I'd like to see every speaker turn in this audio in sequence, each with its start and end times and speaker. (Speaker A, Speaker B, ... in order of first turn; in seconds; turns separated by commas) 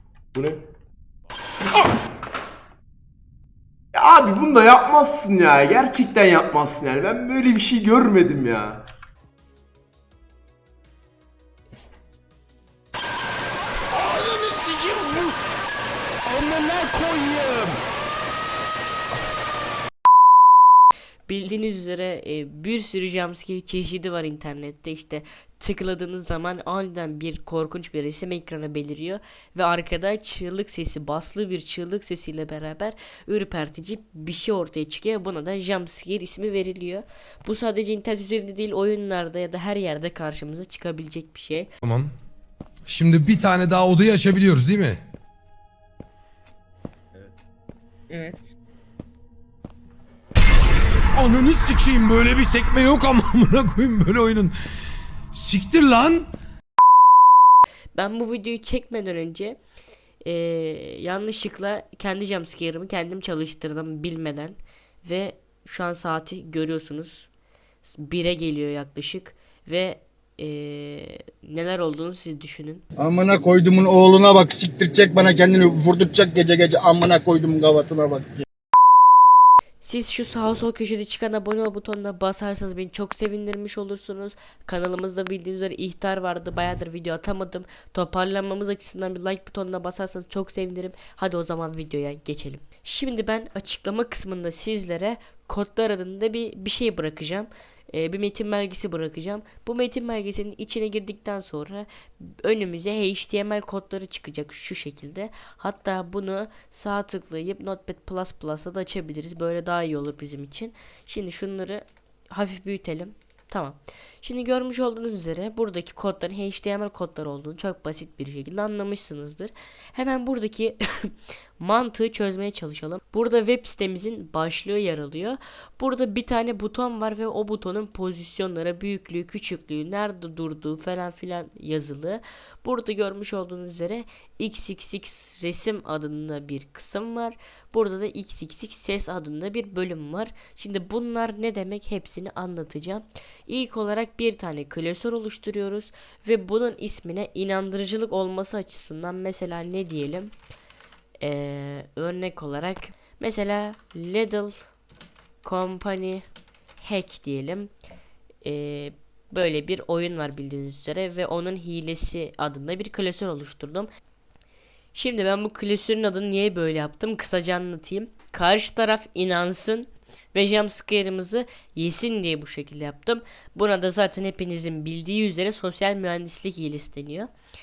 Speaker A: 0.3-0.6, Speaker A: 3.9-8.8, Speaker B: 14.0-15.3, Speaker B: 16.3-17.8, Speaker C: 21.3-41.7, Speaker D: 41.8-42.1, Speaker D: 42.9-45.0, Speaker D: 51.1-54.5, Speaker D: 55.3-56.3, Speaker C: 57.9-59.6, Speaker C: 60.2-67.3, Speaker C: 67.8-72.8, Speaker E: 73.0-78.5, Speaker C: 79.8-150.3, Speaker C: 151.2-154.6, Speaker C: 155.4-156.2, Speaker C: 156.8-157.7, Speaker C: 158.4-163.9, Speaker C: 164.9-177.3